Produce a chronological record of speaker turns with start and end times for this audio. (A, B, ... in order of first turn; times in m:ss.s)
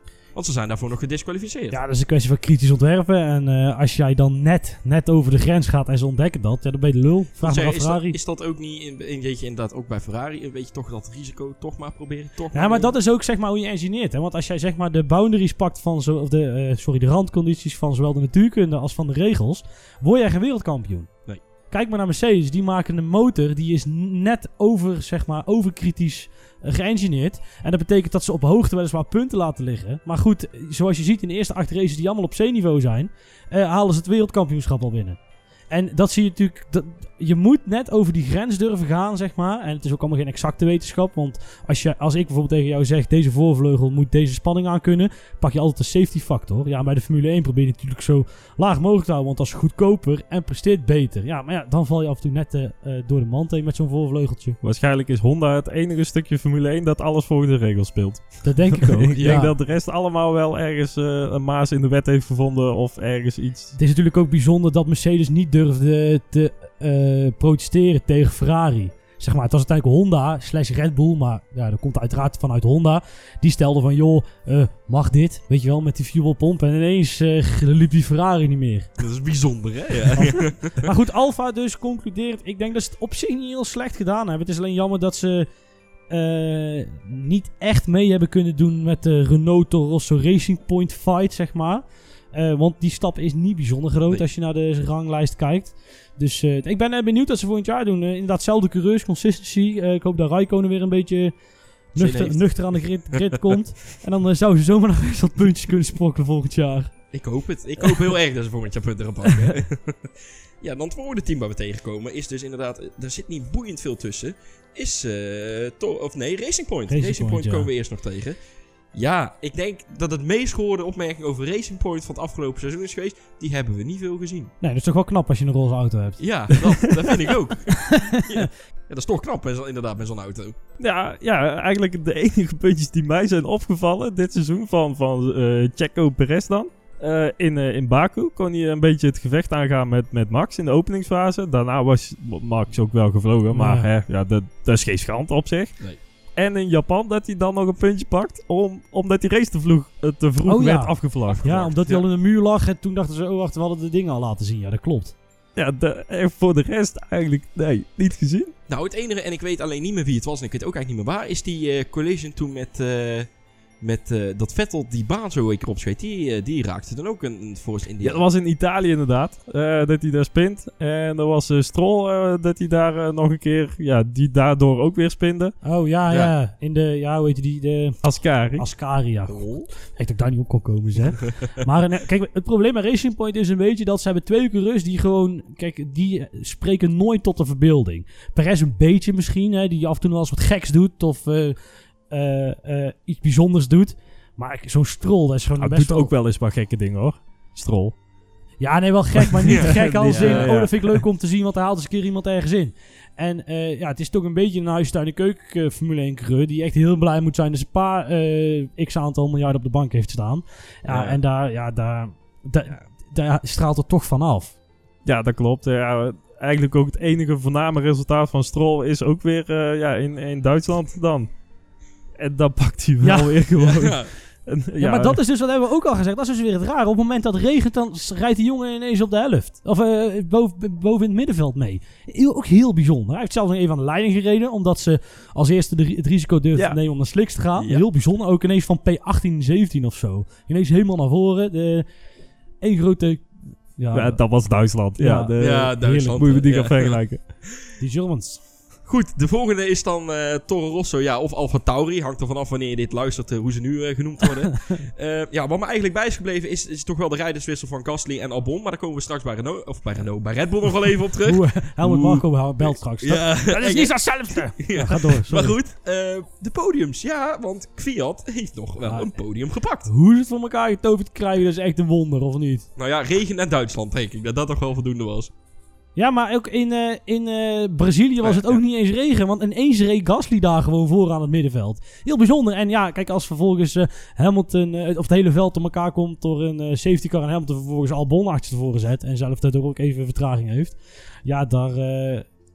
0:00.3-0:01.8 A
0:01.7-0:08.2 B
0:07.4-0:12.9 A
0:12.5-0:21.1 B
0:21.7-0:35.2 B
0:35.7-0:54.6 B
0:54.6-1:03.7 C
0:58.4-0:59.5 B
0:59.1-0:59.5 A
1:03.7-1:18.9 B
1:19.0-1:20.9 A
1:20.1-1:25.5 B
1:26.1-1:41.3 B
1:41.9-1:46.9 B
1:42.0-1:42.4 A
1:47.1-1:58.4 A
1:56.9-1:57.7 B
1:58.9-2:04.5 A
2:04.6-2:06.2 B
2:06.2-2:10.5 A
2:10.8-2:25.8 C
2:23.5-2:23.9 B
2:26.4-2:31.6 C
2:30.4-2:35.1 B
2:31.2-2:32.0 A
2:35.6-2:38.5 C
2:38.7-2:43.3 A
2:43.8-2:48.2 A
2:48.0-2:55.5 C
2:55.6-2:58.0 B
2:58.0-2:58.6 C
2:58.6-3:16.1 B
2:59.3-2:59.7 A
3:15.6-3:18.0 C
3:18.6-3:34.6 B
3:19.4-3:21.0 C
3:19.5-3:20.6 A
3:30.9-3:31.2 C
3:35.0-3:41.3 C
3:42.2-3:45.2 C
3:43.0-3:43.3 B
3:43.6-3:44.1 A
3:44.8-4:01.8 B
3:57.6-3:57.8 A
4:02.6-4:04.4 B
4:03.9-4:07.4 C
4:04.9-4:05.3 B
4:05.4-4:07.4 A
4:07.8-4:08.4 B
4:08.8-4:29.9 A
4:21.2-4:25.6 B
4:28.8-4:29.2 B
4:29.8-4:32.6 B
4:32.8-4:35.3 A
4:36.0-4:52.3 B
4:38.2-4:38.6 A